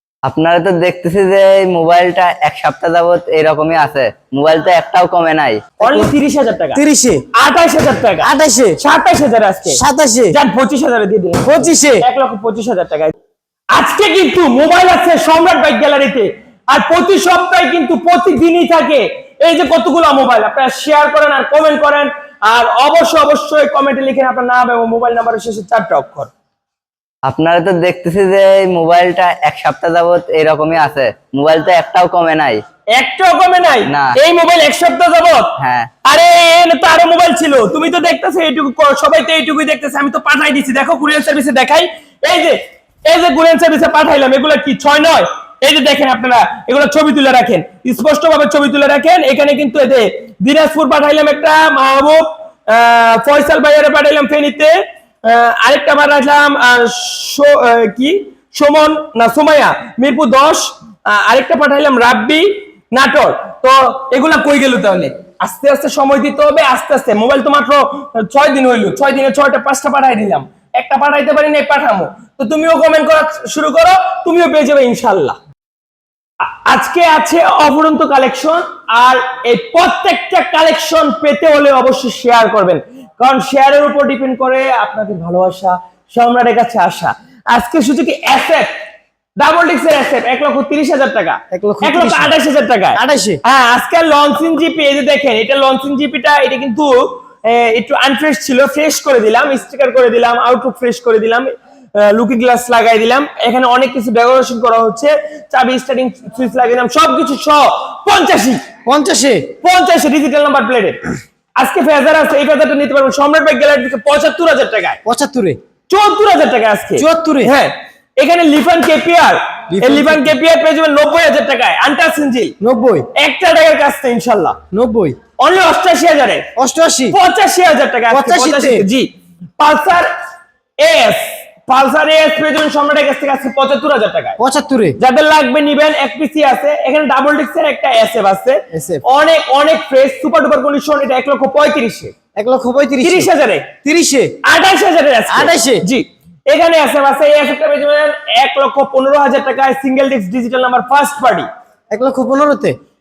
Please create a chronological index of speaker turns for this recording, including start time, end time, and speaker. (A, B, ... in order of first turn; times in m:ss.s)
0:00.2-0:05.6 A
0:05.8-0:06.8 B
0:05.8-0:06.1 C
0:06.7-0:07.2 C
0:07.3-0:13.1 B
0:08.2-0:08.8 C
0:09.7-0:10.4 C
0:11.4-0:12.0 C
0:13.7-0:26.3 B
0:27.3-0:32.6 A
0:33.0-1:15.4 B
0:33.9-0:34.2 A
0:35.6-0:35.9 A
1:16.6-1:28.7 B
1:29.4-1:48.6 B
1:31.5-1:32.3 C
1:32.9-1:33.4 C
1:48.8-1:49.5 C
1:49.6-1:51.0 B
1:51.6-1:55.0 B
1:55.0-1:55.6 C
1:55.9-2:02.5 B
1:57.0-1:57.5 C
1:59.7-2:00.3 C
2:02.6-2:03.1 C
2:03.2-2:04.6 B
2:04.7-2:05.2 C
2:05.4-2:06.5 B
2:06.6-2:07.2 C
2:07.1-2:09.1 B
2:08.1-2:08.8 C
2:09.6-2:10.1 B
2:10.8-2:14.4 B
2:14.4-2:15.0 C
2:15.0-2:22.1 B
2:18.7-2:19.0 C
2:22.4-2:23.3 C
2:23.0-2:23.7 B
2:23.8-2:24.4 C
2:24.4-2:31.5 B
2:25.3-2:25.8 C
2:31.9-2:32.8 C